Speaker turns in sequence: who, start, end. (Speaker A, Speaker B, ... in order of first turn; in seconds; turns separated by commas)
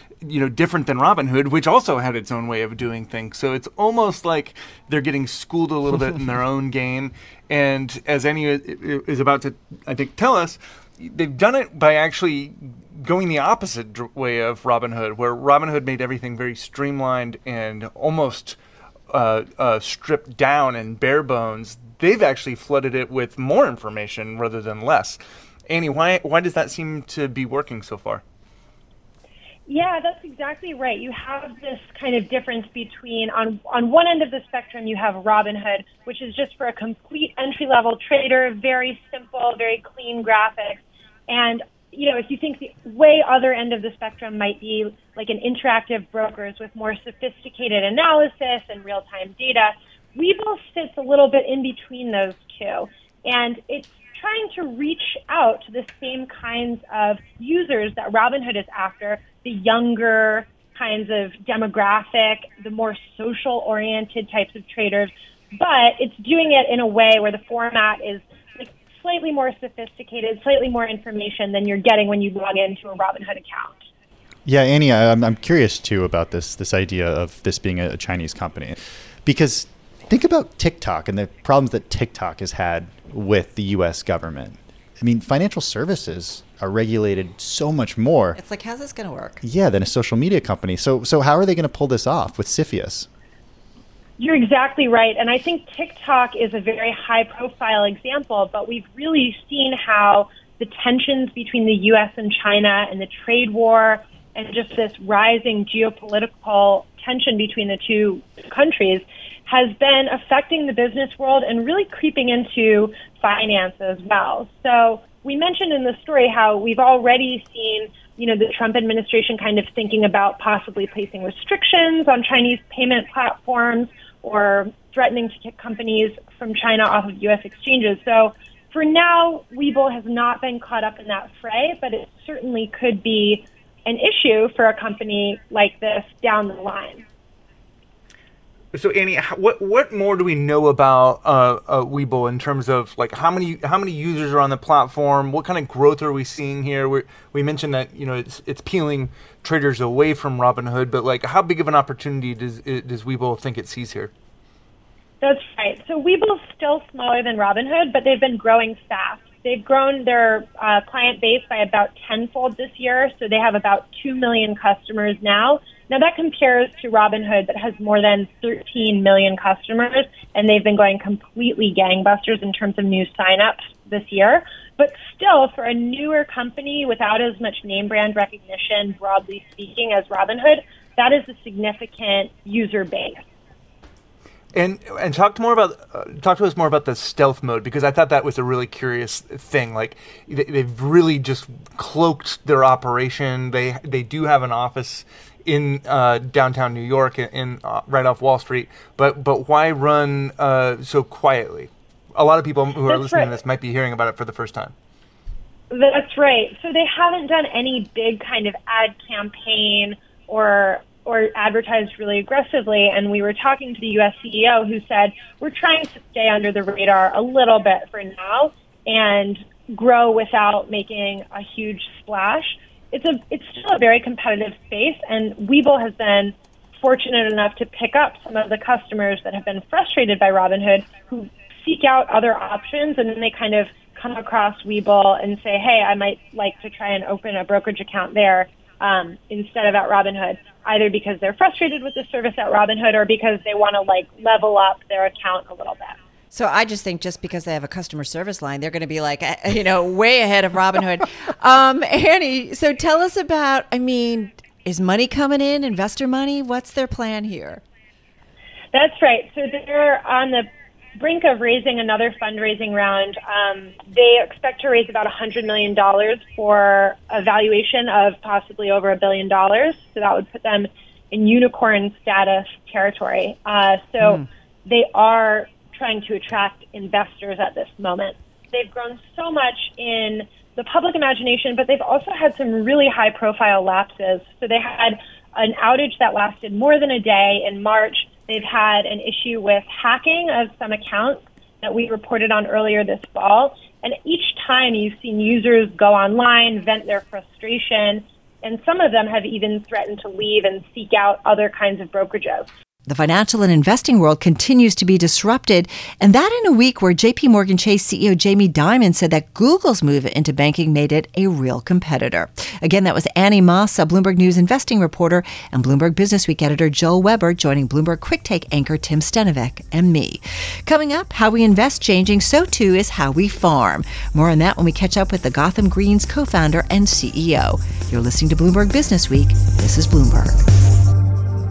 Speaker A: 0.2-18.6, Speaker A: 19.1-28.2, Speaker B: 29.7-73.8, Speaker C: 74.5-88.4, Speaker D: 88.4-89.4, Speaker C: 89.4-93.1, Speaker B: 94.2-137.0, Speaker A: 138.7-154.1, Speaker B: 155.2-183.2, Speaker A: 184.5-204.7, Speaker B: 202.8-203.4, Speaker B: 205.7-246.0, Speaker D: 246.3-257.6, Speaker B: 258.7-302.5, Speaker D: 302.9-330.4